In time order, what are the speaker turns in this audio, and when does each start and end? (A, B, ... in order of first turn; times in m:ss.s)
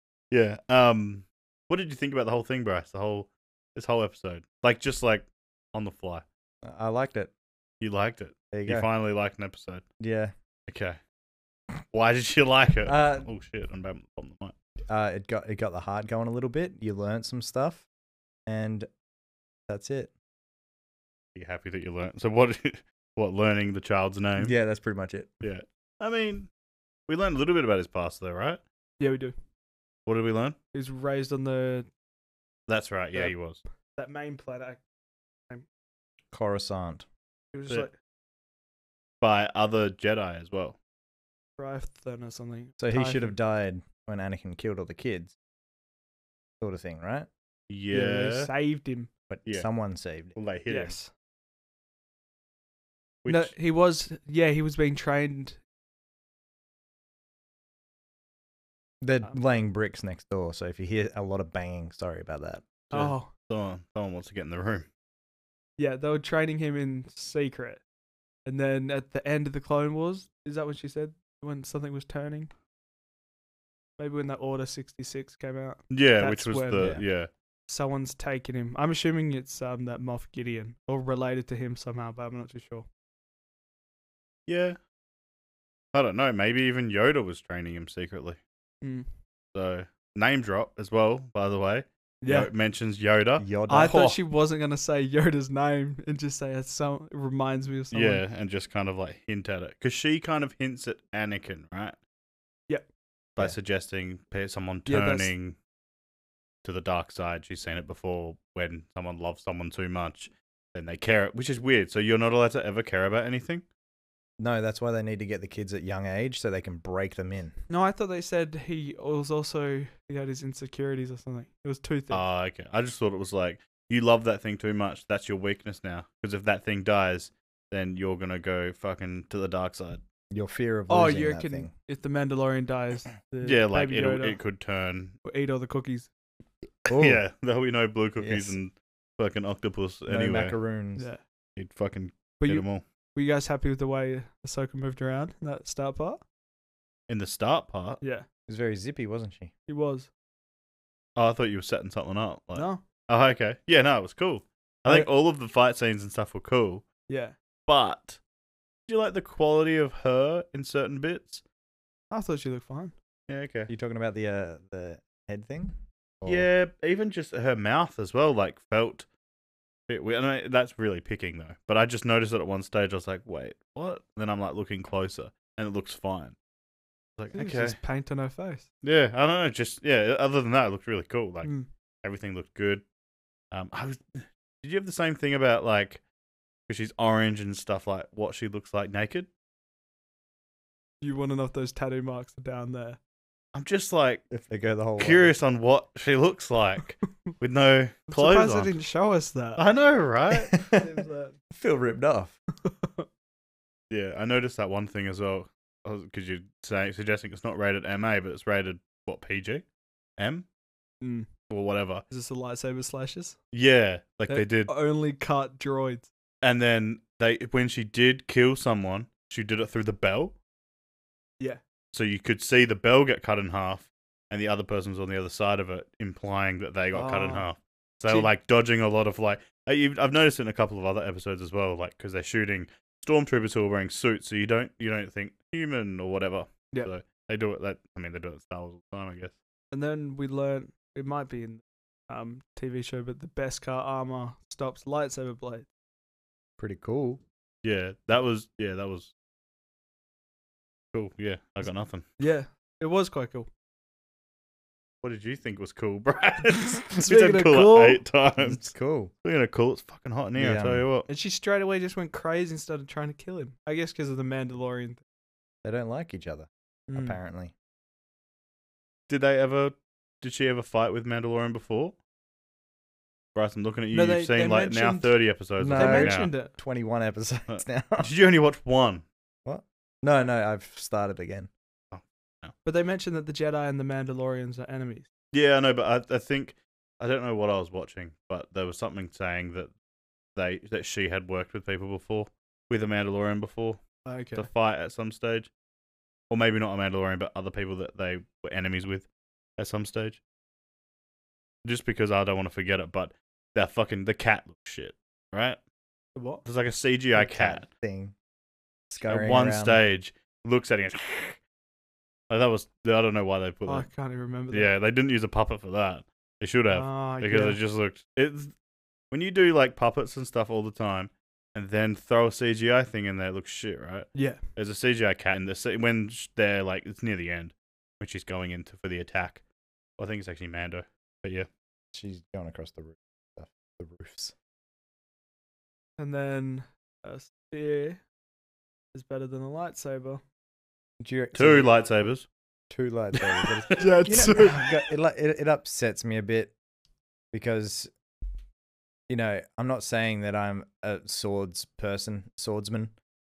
0:00.3-0:06.2 A
0:06.6-0:07.3 B
0:07.8-0:09.8 A
0:08.5-0:08.9 B
0:10.0-0:10.3 B
0:10.7-0:11.0 A
0:11.9-0:14.5 A
0:12.8-0:13.3 B
0:14.9-0:17.8 B
0:18.5-0:18.9 B
0:19.7-0:20.1 B
0:21.3-0:24.5 A
0:24.4-0:25.4 B
0:25.4-0:26.5 A
0:27.1-0:28.6 A
0:29.0-0:29.3 C
0:30.0-0:30.6 A
0:30.7-0:31.9 C
0:32.7-0:33.6 A
0:34.0-0:34.8 C
0:36.3-0:37.0 B
0:37.5-0:37.9 C
0:39.2-0:40.8 A
0:41.6-0:43.4 C
0:42.8-0:45.3 B
0:46.6-0:47.3 B
0:47.7-0:48.5 A
0:47.9-0:49.1 C
0:49.3-0:50.3 B
0:50.3-0:51.0 A
0:50.7-0:51.1 C
0:53.2-0:53.5 A
0:53.3-0:55.6 C
0:59.0-1:02.7 B
1:02.9-1:03.3 C
1:02.9-1:04.9 A
1:05.8-1:07.8 C
1:08.4-1:12.5 C
1:14.0-1:17.0 C
1:15.9-1:17.3 A
1:16.8-1:17.0 B
1:17.7-1:22.9 C
1:24.5-1:24.8 A
1:25.9-1:28.4 A
1:28.8-1:29.1 C
1:29.5-1:34.2 A
1:32.2-1:32.5 C
1:33.4-1:34.0 B
1:33.7-1:38.2 C
1:37.9-1:42.0 A
1:43.4-1:45.6 A
1:44.9-1:45.3 C
1:46.6-1:53.6 A
1:54.4-1:57.5 B
1:57.7-2:02.2 C
2:02.1-2:10.0 A
2:10.3-2:11.7 B
2:10.9-2:14.4 C
2:13.4-2:15.1 A
2:15.2-2:16.1 C
2:16.8-2:17.2 B
2:16.9-2:20.6 A
2:18.2-2:18.6 B
2:20.1-2:21.1 B
2:21.6-2:22.8 A
2:22.4-2:26.2 C
2:27.1-2:28.0 A
2:28.0-2:28.2 C
2:28.5-2:29.5 B
2:29.7-2:30.1 C
2:31.2-2:36.8 A
2:32.5-2:32.8 C
2:37.1-2:37.3 C
2:37.7-2:38.2 A
2:38.9-2:41.4 A
2:42.1-2:42.9 C
2:43.3-2:43.7 A
2:43.7-2:46.5 B
2:46.2-2:49.0 A
2:49.9-2:56.3 A
2:57.2-2:57.8 A
2:57.3-2:58.6 C
2:58.8-3:01.5 A
3:01.4-3:01.7 C
3:02.0-3:02.8 A
3:03.5-3:06.0 A
3:06.7-3:09.3 A
3:11.0-3:13.0 C
3:13.5-3:14.2 A
3:14.3-3:15.3 B
3:15.0-3:18.7 A
3:18.1-3:19.6 C
3:19.6-3:20.6 A
3:20.5-3:20.8 B
3:20.7-3:21.3 C
3:21.5-3:22.4 B
3:22.6-3:23.1 C
3:23.9-3:29.6 A
3:30.2-3:30.4 A
3:31.0-3:31.3 C
3:31.5-3:32.0 A
3:32.1-3:33.4 C
3:33.5-3:34.7 A
3:34.3-3:36.1 C
3:36.4-3:40.3 A
3:41.9-3:59.3 A
3:46.9-3:47.4 C
3:59.7-4:05.7 C
4:06.6-4:07.2 B
4:07.6-4:09.1 A
4:10.9-4:12.1 A
4:12.2-4:13.5 C
4:15.0-4:21.1 A
4:16.8-4:18.0 C
4:18.4-4:19.1 B
4:20.4-4:20.8 B
4:21.1-4:25.0 C
4:25.6-4:27.5 B
4:26.9-4:27.2 C
4:29.1-4:32.0 A
4:33.3-4:36.3 A
4:33.9-4:35.2 C
4:35.6-4:38.1 B
4:35.7-4:36.5 C
4:37.5-4:39.0 A
4:39.4-4:41.5 B
4:41.9-4:42.5 A
4:42.6-4:45.1 C
4:45.3-4:49.7 A
4:50.3-4:53.8 A
4:54.0-4:54.5 C
4:54.3-4:55.5 A
4:56.3-5:00.2 A
5:01.6-5:05.6 A
5:06.1-5:06.4 C
5:06.4-5:07.7 A
5:07.1-5:08.1 B
5:08.9-5:09.8 B
5:09.0-5:11.4 A
5:12.3-5:13.9 A
5:13.7-5:14.7 C
5:14.5-5:18.5 A
5:16.7-5:17.6 C
5:19.1-5:29.4 A
5:24.1-5:24.4 C
5:30.0-5:31.5 A
5:31.9-5:34.3 B
5:36.0-5:38.0 C
5:38.9-5:40.2 C
5:41.0-5:41.7 B
5:41.3-5:42.3 A
5:42.7-5:46.5 B
5:43.7-5:44.8 C
5:47.3-5:47.9 B
5:49.1-5:52.9 B